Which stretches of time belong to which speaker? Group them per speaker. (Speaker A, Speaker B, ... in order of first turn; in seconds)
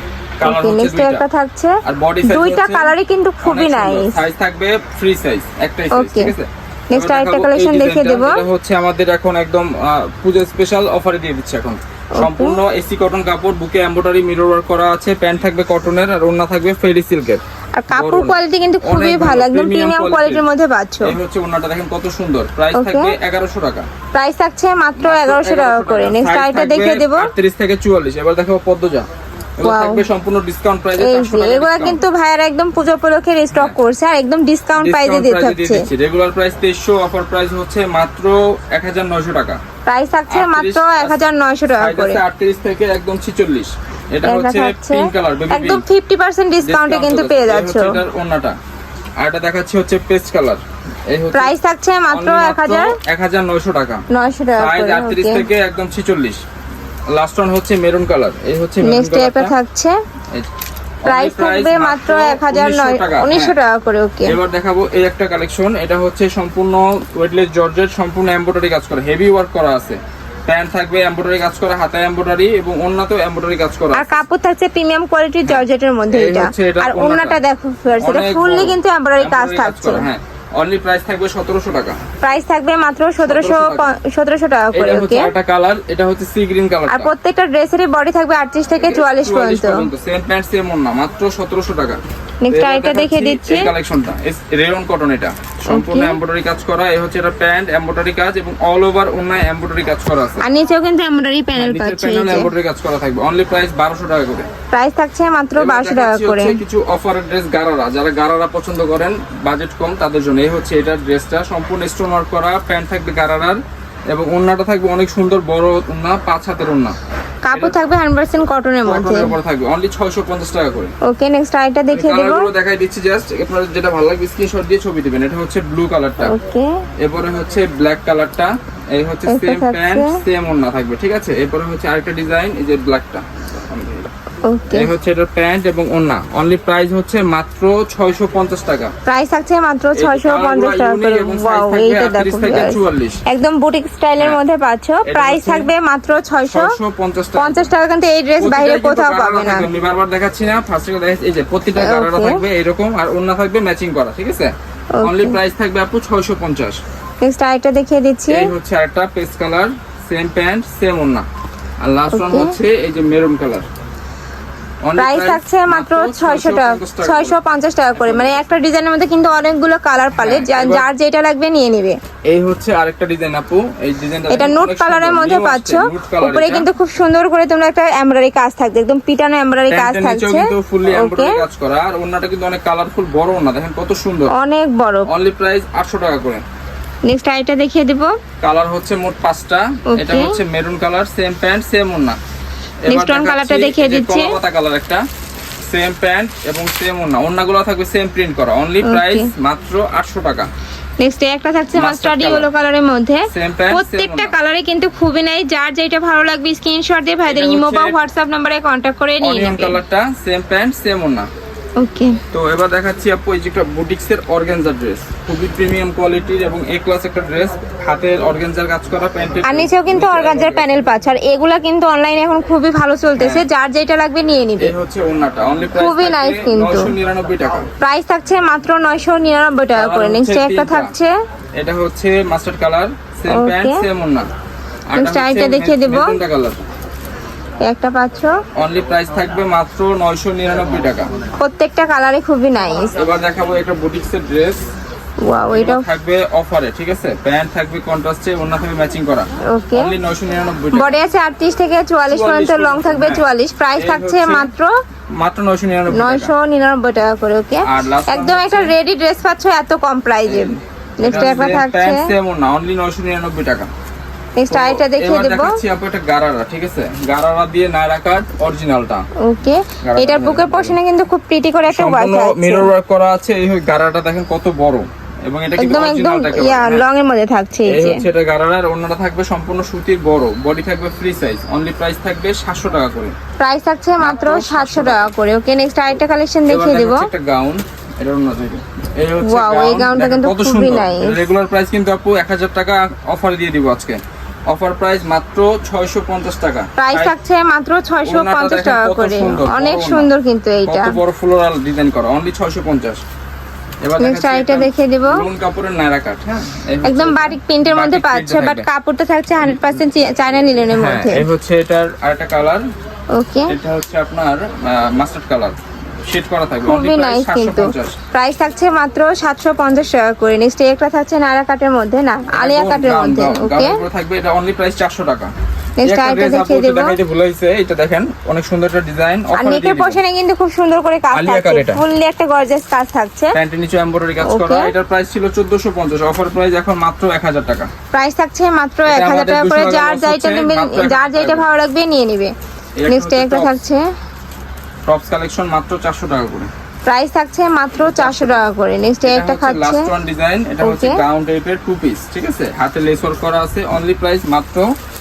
Speaker A: 0.4-1.2, 1.8-17.4, 17.9-20.5, 21.0-23.9, 25.0-29.1, 29.6-32.0, 34.8-39.6, 40.3-41.2, 41.8-45.8, 46.6-48.5, 49.2-51.5, 52.1-54.0, 54.6-56.4, 57.1-59.5, 61.0-63.5, 64.2-74.2, 75.4-77.4, 78.0-82.0, 83.2-83.9, 84.7-87.1, 88.8-100.4, 101.5-104.5, 105.5-113.6, 114.1-116.9, 117.5-117.8, 118.8-120.9, 121.9-126.3, 127.0-134.1, 134.7-138.9, 139.9-143.2, 145.1-145.7, 146.5-147.7, 148.4-154.5, 155.0-156.8, 158.3-161.2, 161.8-163.7, 164.8-167.4, 168.0-168.4, 170.2-170.9, 172.2-176.7, 179.7-184.3, 185.1-186.4, 188.4-192.2, 192.8-195.0, 195.7-200.5, 201.7-202.5, 203.3-204.3, 207.3-208.0, 209.2-211.3, 212.3-220.7, 223.2-223.5, 224.6-227.7, 229.8-230.9, 231.6-234.3, 234.9-236.6, 238.6-241.1, 242.9-244.6, 245.5-250.9, 252.1-253.2, 253.8-254.5, 255.2-256.3, 257.6-258.7, 260.2-263.7, 264.5-269.1, 269.8-270.8, 271.7-276.8, 277.7-283.1, 284.0-285.1, 286.5-297.1, 298.0-300.1, 300.6-303.0, 303.8-308.7, 309.4-312.6, 313.5-318.0, 322.4-325.3, 325.8-330.0, 331.1-331.8, 333.3-337.7, 338.9-341.5, 342.8-343.6, 344.9-346.5, 347.8-348.4, 349.1-354.7
Speaker B: 0.4-4.1, 5.9-6.3, 6.9-8.4, 12.2-12.6, 17.8-21.1, 22.7-23.1, 24.1-27.3, 29.6-30.0, 31.0-35.9, 39.9-42.2, 44.2-48.0, 51.3-52.9, 54.1-55.4, 58.8-60.0, 61.0-64.4, 73.9-80.1, 82.2-85.3, 86.9-89.8, 92.4-93.7, 95.7-96.2, 100.4-102.5, 104.7-106.6, 117.5-119.3, 121.0-122.5, 126.2-126.8, 129.3-130.2, 134.4-134.9, 139.1-146.7, 147.4-149.7, 151.8-152.4, 154.9-155.4, 157.2-158.5, 162.1-162.5, 165.0-172.0, 174.3-181.4, 184.3-185.1, 187.1-188.1, 189.9-190.4, 192.9-194.3, 198.8-199.3, 201.0-209.8, 211.8-212.2, 219.4-224.7, 225.7-226.9, 227.8-231.1, 233.3-233.8, 234.9-236.2, 237.7-238.3, 241.4-242.9, 245.2-245.8, 249.5-249.9, 250.7-254.7, 255.9-262.1, 264.4-265.6, 269.2-272.7, 275.6-278.0, 283.4-287.1, 289.2-291.2, 296.8-300.9, 304.0-305.2, 306.8-311.2, 313.1-313.5, 316.6-323.8, 325.8-326.9, 329.4-333.3, 334.2-334.7, 337.9-342.3, 342.9-343.8, 346.9-349.9, 350.6-351.0